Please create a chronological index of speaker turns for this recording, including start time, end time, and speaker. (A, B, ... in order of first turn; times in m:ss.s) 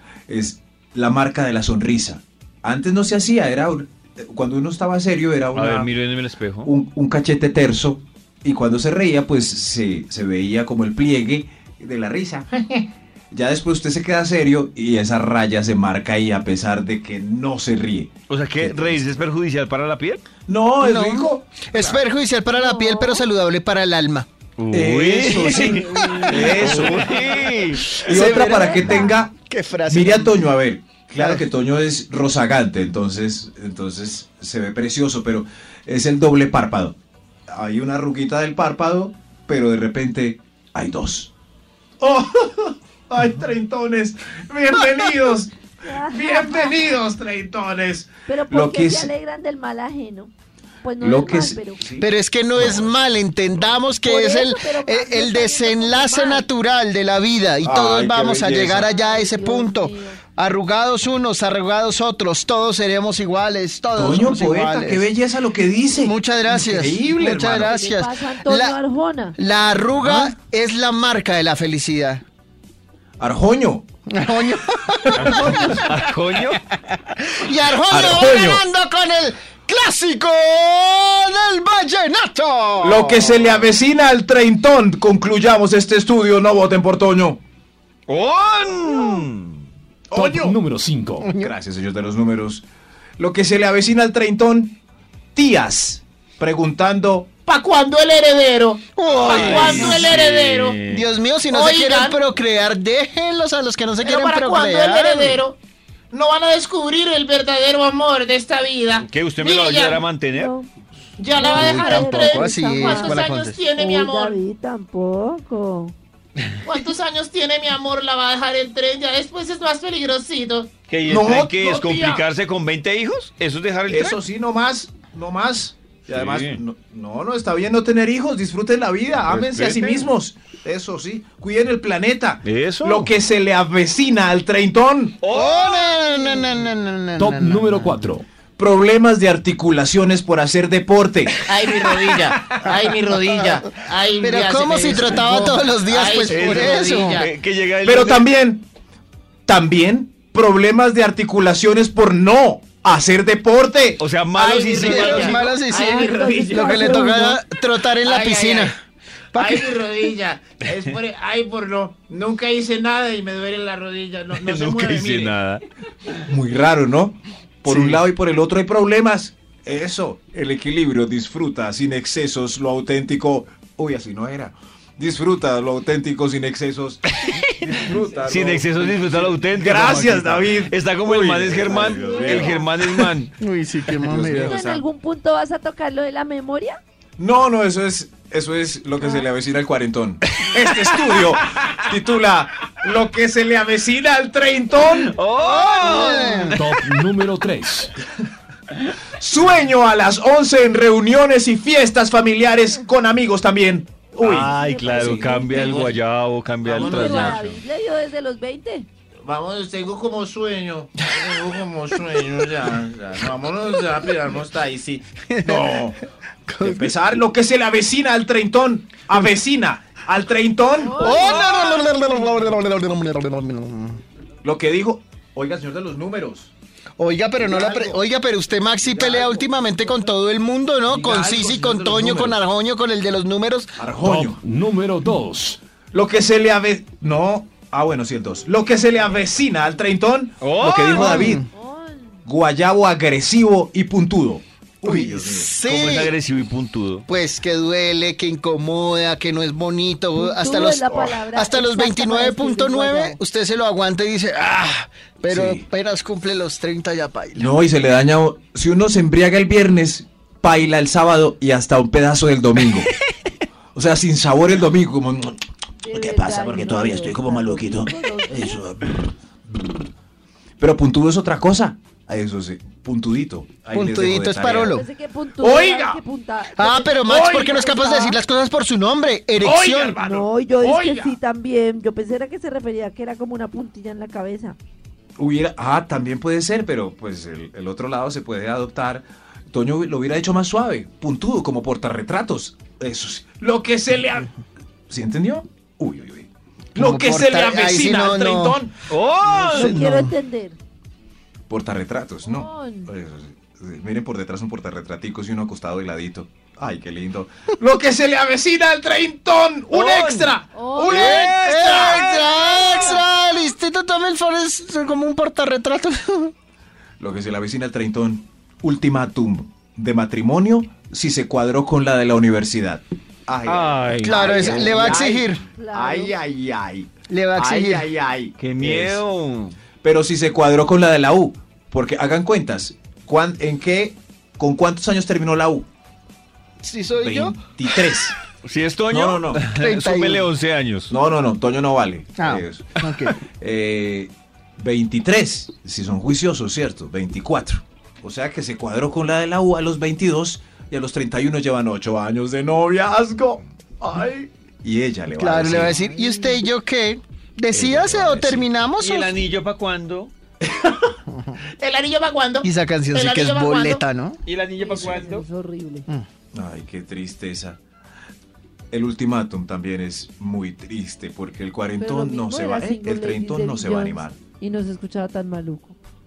0:00.3-0:05.9 A
0:05.5-0:06.7 B
0:06.6-0:19.0 A
0:18.3-0:20.2 B
0:20.4-0:22.0 A
0:20.8-0:24.3 C
0:22.5-0:23.2 D
0:24.6-0:27.9 B
0:24.7-0:27.1 A
0:25.5-0:27.4 D
0:27.8-0:30.5 C
0:27.9-0:29.3 A
0:28.2-0:29.2 D
0:29.9-0:37.0 A
0:31.2-0:31.4 C
0:37.5-0:41.3 A
0:42.0-0:49.1 A
0:45.8-0:46.9 D
0:48.2-0:50.3 D
0:50.8-0:51.8 D
0:51.0-0:53.0 A
0:52.0-1:05.1 C
0:54.0-0:56.5 D
0:57.6-0:58.9 A
0:58.8-1:00.2 D
1:03.9-1:07.7 A
1:06.0-1:08.8 C
1:07.6-1:09.4 D
1:09.4-1:12.2 C
1:13.2-1:13.8 A
1:14.1-1:15.9 C
1:15.2-1:15.8 A
1:15.2-1:16.6 B
1:17.2-1:23.7 C
1:17.9-1:18.6 A
1:22.8-1:27.4 A
1:28.1-1:29.6 B
1:30.1-1:30.6 A
1:30.1-1:31.3 E
1:31.2-1:31.5 C
1:31.3-1:32.6 A
1:33.2-1:34.8 A
1:35.3-1:37.5 A
1:37.4-1:40.8 F
1:38.9-1:40.1 C
1:39.2-1:41.1 B
1:40.9-1:45.4 C
1:41.5-1:42.2 F
1:44.0-1:45.6 F
1:46.1-1:50.0 F
1:48.9-1:50.5 B
1:50.3-1:50.7 D
1:51.2-1:54.4 F
1:51.3-1:55.9 D
1:51.4-1:53.6 C
1:56.6-2:00.7 F
2:00.9-2:04.2 B
2:01.0-2:02.1 A
2:01.6-2:02.2 F
2:03.9-2:15.2 A
2:06.1-2:06.6 B
2:09.2-2:10.1 B
2:12.4-2:13.1 B
2:15.2-2:16.6 B
2:15.3-2:18.0 C
2:17.2-2:18.2 E
2:18.6-2:22.7 A
2:21.4-2:27.3 F
2:23.2-2:23.6 C
2:24.2-2:27.2 C
2:26.2-2:28.3 B
2:27.8-2:28.6 A
2:29.4-2:34.0 A
2:34.0-2:35.5 B
2:34.4-2:37.0 F
2:34.8-2:38.8 C
2:35.7-2:37.4 D
2:38.0-2:38.7 F
2:39.3-2:39.8 C
2:39.3-2:45.3 F
2:44.3-2:45.6 B
2:46.3-2:57.0 A
2:47.6-2:48.0 C
2:57.1-3:03.3 B
2:57.6-3:02.6 A
3:01.7-3:02.7 D
3:03.4-3:04.6 C
3:04.0-3:04.8 A
3:04.3-3:06.8 D
3:07.2-3:15.1 A
3:10.7-3:11.3 B
3:14.8-3:16.7 B
3:15.4-3:16.6 C
3:16.4-3:18.0 E
3:19.2-3:25.5 A
3:24.2-3:27.6 B
3:24.4-3:25.9 D
3:25.5-3:26.0 F
3:26.7-3:27.3 F
3:26.7-3:27.4 A
3:26.8-3:28.9 D
3:29.2-3:35.0 F
3:31.1-3:32.0 C
3:35.2-3:35.8 C
3:35.4-3:36.0 A
3:36.5-3:37.0 C
3:36.6-3:41.1 A
3:40.7-3:41.9 D
3:40.9-3:44.0 C
3:41.0-3:41.6 B
3:44.4-3:46.5 A
3:47.0-3:53.8 C
3:47.4-3:48.0 A
3:48.8-3:50.0 A
3:50.9-3:52.4 A
3:53.8-3:54.4 A
3:54.0-3:55.6 E
3:55.9-4:01.4 A
4:00.4-4:01.3 B
4:00.9-4:01.5 C
4:01.3-4:02.2 D
4:02.2-4:05.5 A
4:04.8-4:06.1 C
4:05.6-4:07.1 B
4:07.1-4:17.6 C
4:10.2-4:13.2 D
4:15.3-4:15.6 A
4:17.4-4:22.9 A
4:23.7-4:25.4 A
4:25.8-4:28.6 D
4:25.9-4:29.8 A
4:30.6-4:34.8 A
4:33.7-4:34.9 C
4:34.5-4:38.2 D
4:35.4-4:36.0 A
4:36.5-4:40.0 C
4:37.1-4:37.5 A
4:39.4-4:41.2 A
4:40.0-4:44.6 D
4:45.2-4:54.3 A
4:54.9-4:58.7 A
4:56.7-4:58.6 C
4:58.9-4:59.8 B
4:59.5-5:00.6 D
4:59.5-5:00.1 C
5:01.5-5:12.0 A
5:02.3-5:02.9 D
5:09.7-5:10.4 B
5:10.5-5:13.1 D
5:10.8-5:16.3 C
5:17.0-5:29.0 A
5:23.4-5:25.1 B
5:24.0-5:25.4 C
5:25.5-5:26.1 D
5:27.1-5:27.9 C
5:28.4-5:29.6 B
5:29.8-5:35.7 A
5:36.6-5:37.4 C
5:37.0-5:38.2 A
5:38.4-5:40.9 B
5:38.9-5:39.4 A
5:39.6-5:40.3 C
5:40.9-5:42.8 A
5:42.2-5:43.2 C
5:43.4-5:55.8 A
5:55.2-5:59.2 C
5:55.5-5:56.4 D
5:57.5-5:58.5 A
5:58.8-6:00.1 B
6:00.4-6:00.9 A
6:01.6-6:03.8 F
6:02.4-6:04.2 C
6:04.2-6:05.2 B
6:04.6-6:05.9 D
6:06.3-6:07.6 A
6:08.7-6:14.2 A
6:11.8-6:15.8 D